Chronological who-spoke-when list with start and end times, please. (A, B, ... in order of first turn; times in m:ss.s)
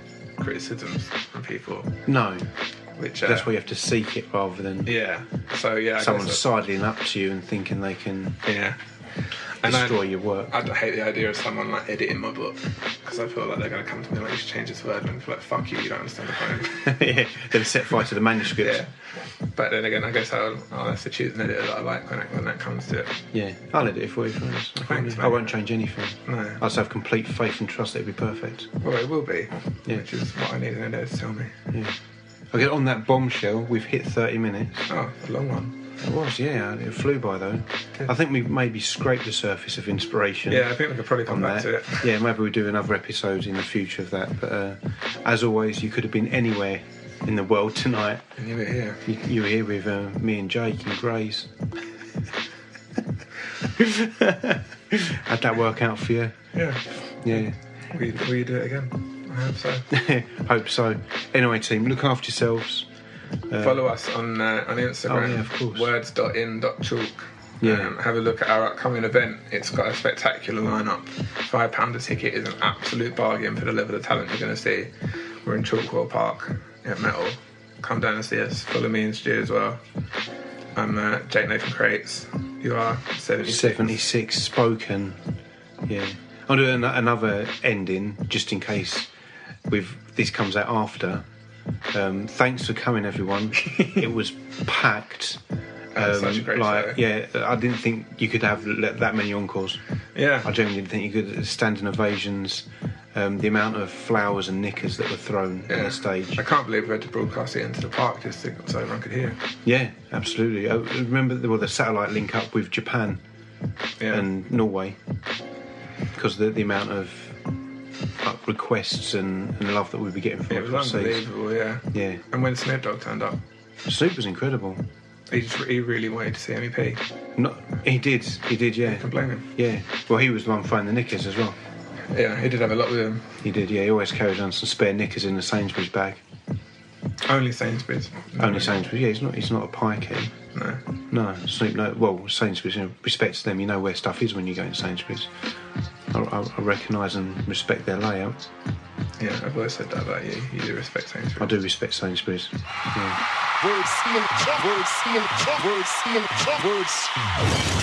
0:00.4-0:02.0 A
0:02.1-0:02.6 B
0:03.0-0:03.5 A
0:03.2-0:05.0 B
0:04.8-0:06.4 A
0:06.0-0:08.4 B
0:08.4-0:17.1 A
0:09.6-0:10.5 B
0:16.8-0:18.8 B
0:17.7-0:17.9 A
0:18.5-0:23.2 A
0:23.3-0:28.7 B
0:24.8-0:25.6 A
0:26.3-0:26.6 A
0:28.8-0:31.6 A
0:31.7-0:32.0 B
0:32.5-0:34.9 B
0:34.9-0:35.8 A
0:36.0-0:40.7 B
0:40.5-0:42.1 A
0:41.3-0:48.2 B
0:48.4-0:49.0 A
0:49.0-0:51.6 B
0:53.8-0:56.5 B
0:56.5-0:59.9 A
0:57.2-0:57.6 B
0:59.9-1:02.9 B
1:03.5-1:03.8 B
1:03.6-1:19.8 A
1:05.1-1:05.9 B
1:07.6-1:08.0 B
1:20.7-1:24.0 A
1:23.4-1:25.2 B
1:25.9-1:29.1 B
1:29.7-1:31.3 B
1:31.9-1:35.4 B
1:36.0-1:37.0 A
1:36.0-1:39.8 B
1:40.2-1:40.5 A
1:40.4-1:46.4 B
1:45.7-1:49.4 A
1:49.6-1:53.2 B
1:54.0-1:54.2 A
1:54.1-1:55.0 B
1:56.1-1:57.4 B
1:58.2-2:01.2 B
2:00.5-2:03.4 A
2:01.9-2:02.2 B
2:03.8-2:04.8 B
2:05.3-2:07.0 A
2:07.4-2:11.6 B
2:08.9-2:09.5 A
2:12.1-2:13.4 A
2:13.4-2:16.2 B
2:17.2-2:18.9 A
2:18.4-2:20.4 B
2:20.5-2:20.8 A
2:21.1-2:25.3 B
2:26.1-2:28.5 B
2:29.2-2:31.5 A
2:31.4-2:33.2 B
2:33.6-2:37.5 C